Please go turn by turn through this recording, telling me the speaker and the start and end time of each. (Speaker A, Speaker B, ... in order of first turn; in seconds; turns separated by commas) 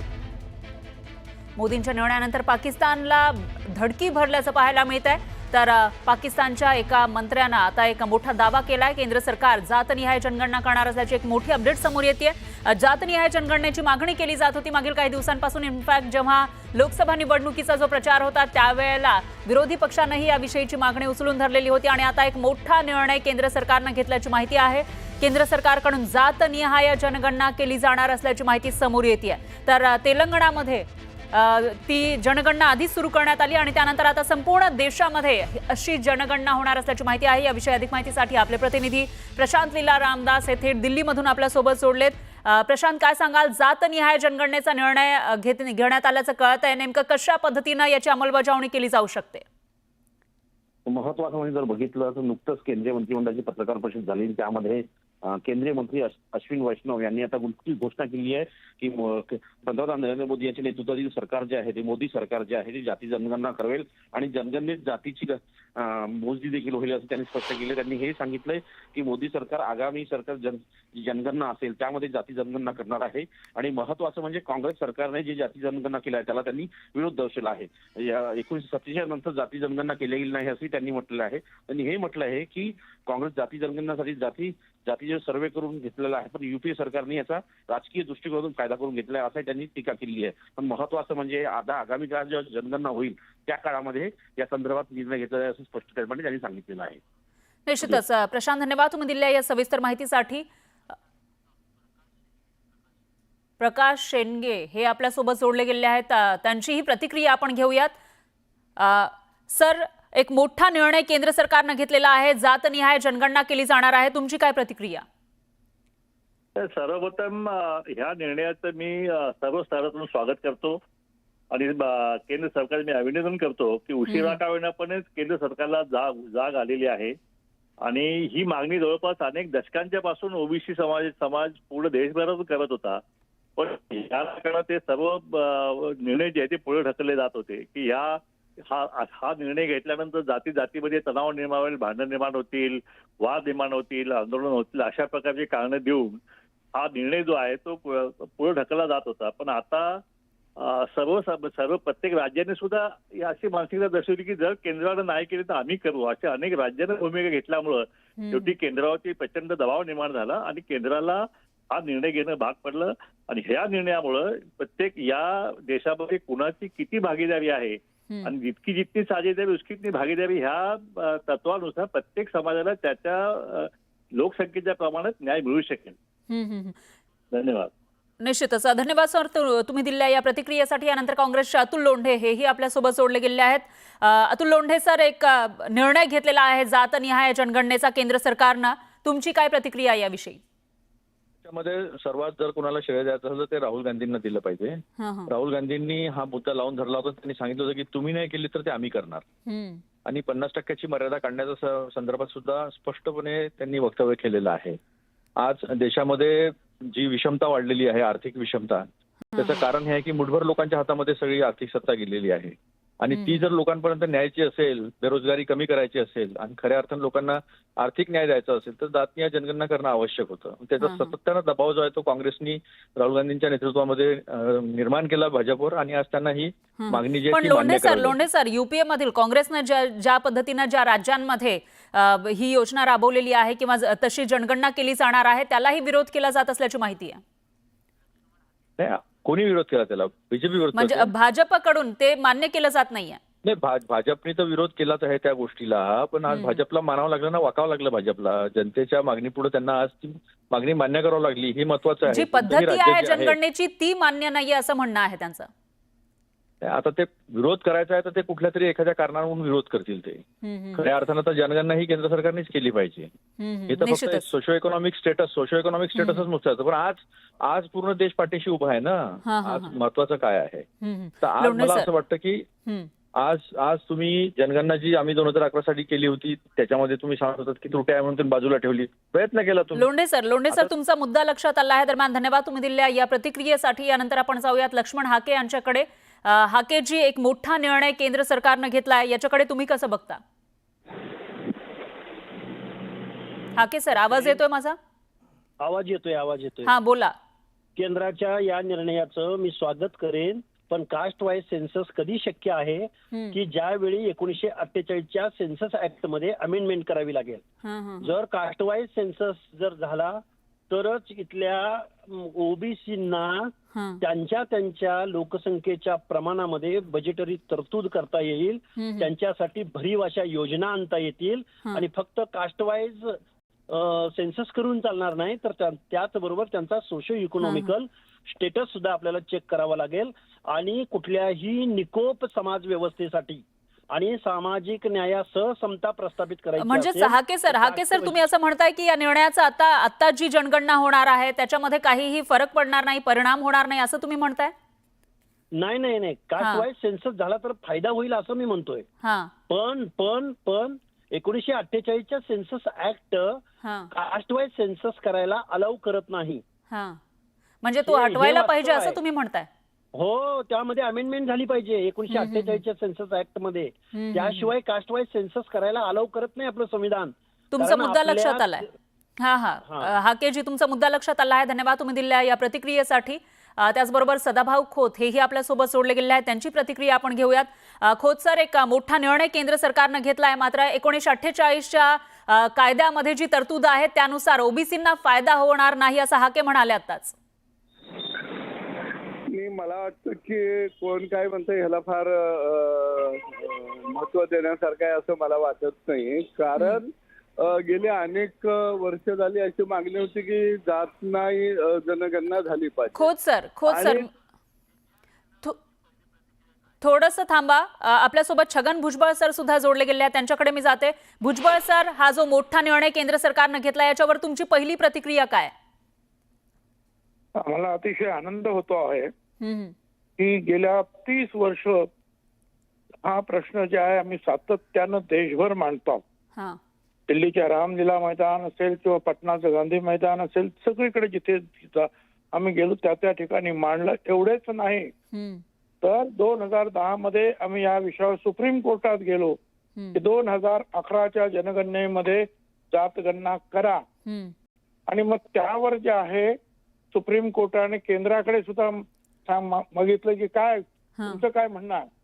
Speaker A: 1.6-49.4, Speaker B: 50.9-97.0, Speaker A: 97.7-100.5, Speaker A: 103.6-107.9, Speaker A: 108.8-115.0, Speaker C: 116.6-120.8, Speaker C: 121.5-127.1, Speaker A: 124.1-124.4, Speaker C: 127.8-133.0, Speaker C: 133.6-146.2, Speaker C: 146.7-150.0, Speaker C: 150.6-175.9, Speaker A: 158.2-158.5, Speaker A: 176.3-176.8, Speaker C: 177.3-177.7, Speaker A: 178.2-190.4, Speaker D: 191.4-199.2, Speaker A: 195.0-195.3, Speaker A: 199.5-199.8, Speaker D: 200.0-204.8, Speaker D: 205.4-228.2, Speaker A: 209.2-209.6, Speaker A: 213.1-213.5, Speaker A: 220.8-221.1, Speaker A: 226.8-237.2, Speaker D: 238.8-241.1, Speaker A: 240.7-243.2, Speaker D: 243.4-253.4, Speaker A: 246.3-246.6, Speaker A: 252.1-255.5, Speaker D: 256.6-260.2, Speaker A: 260.4-260.8, Speaker D: 260.8-263.1, Speaker A: 263.4-264.3, Speaker D: 263.7-270.7, Speaker A: 265.9-266.3, Speaker A: 269.2-269.7, Speaker A: 270.8-271.9, Speaker D: 271.2-272.4, Speaker D: 273.2-279.9, Speaker A: 279.7-290.2, Speaker A: 293.5-294.8, Speaker E: 293.9-294.4, Speaker E: 295.6-296.7, Speaker A: 296.6-297.1, Speaker E: 297.8-307.4, Speaker A: 303.1-303.4, Speaker A: 307.6-308.1, Speaker E: 308.0-338.2, Speaker A: 313.7-314.0, Speaker A: 318.8-319.1, Speaker A: 327.4-327.7, Speaker A: 336.6-344.5, Speaker E: 345.5-348.9, Speaker A: 346.4-346.7, Speaker A: 349.0-349.3, Speaker E: 349.5-356.4, Speaker A: 353.6-353.9, Speaker A: 356.7-357.0, Speaker A: 357.6-359.5, Speaker E: 357.8-359.0, Speaker E: 359.9-368.6, Speaker A: 362.1-362.6, Speaker A: 363.9-364.5, Speaker A: 367.5-368.6, Speaker A: 369.2-387.1, Speaker E: 369.6-370.0, Speaker F: 389.3-404.1, Speaker A: 396.6-396.8, Speaker A: 402.9-404.1, Speaker A: 406.8-415.5, Speaker G: 417.3-419.1, Speaker A: 419.4-419.7, Speaker G: 420.2-421.9, Speaker G: 423.0-426.0, Speaker G: 427.1-434.9, Speaker A: 435.1-435.4, Speaker G: 435.8-439.4, Speaker A: 439.7-440.0, Speaker G: 439.9-443.8, Speaker A: 444.0-444.3, Speaker G: 444.9-446.4, Speaker G: 446.9-451.9, Speaker A: 451.0-451.2